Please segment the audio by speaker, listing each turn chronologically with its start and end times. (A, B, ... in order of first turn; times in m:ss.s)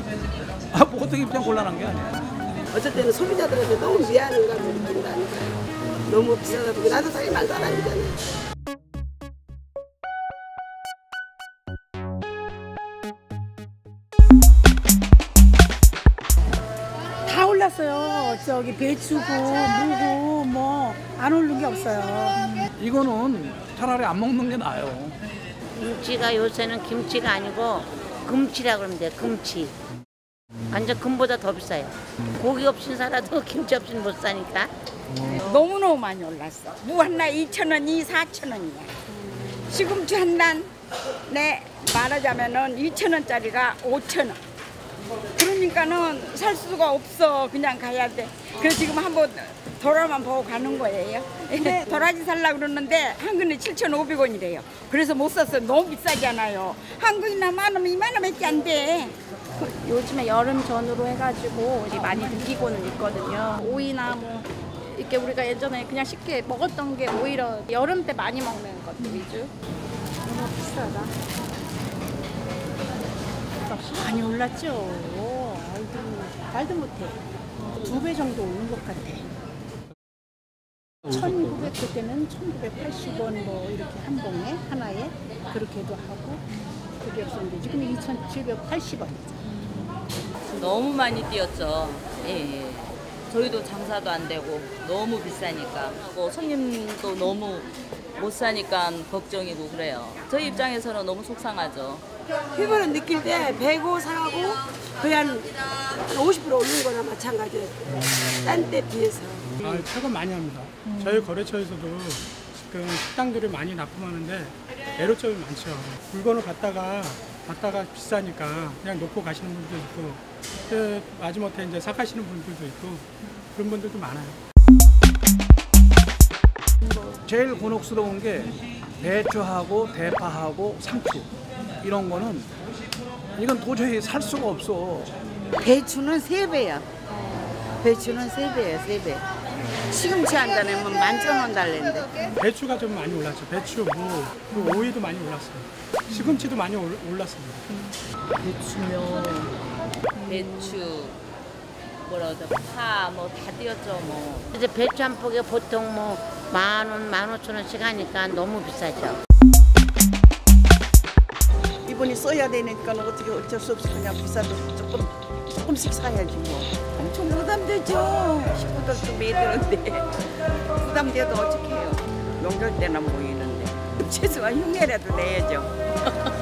0:00.7-0:02.3 A
0:02.7-0:08.2 B
0:17.3-0:22.6 C
0:22.8-0:25.2 A
0:25.8-0:29.7 D
0:30.7-0:34.7 D
0:35.3-0:39.0 E
0:39.6-0:40.7 E
0:41.3-0:44.4 E
0:45.4-0:59.2 E
0:59.6-1:09.5 F
1:10.3-1:11.1 C
1:13.6-1:17.2 C
1:17.8-1:19.3 C
1:21.1-1:26.4 C
1:27.0-1:29.4 C
1:30.5-1:42.0 G
1:42.5-1:49.6 B
1:49.6-2:04.4 H
2:07.0-2:12.5 A
2:13.4-2:15.2 A
2:15.6-2:19.3 I
2:19.8-2:22.2 I
2:22.4-2:27.7 H
2:28.4-2:29.5 G
2:30.2-2:31.2 G
2:32.0-2:34.5 G
2:34.5-2:39.2 D
2:41.8-2:55.7 I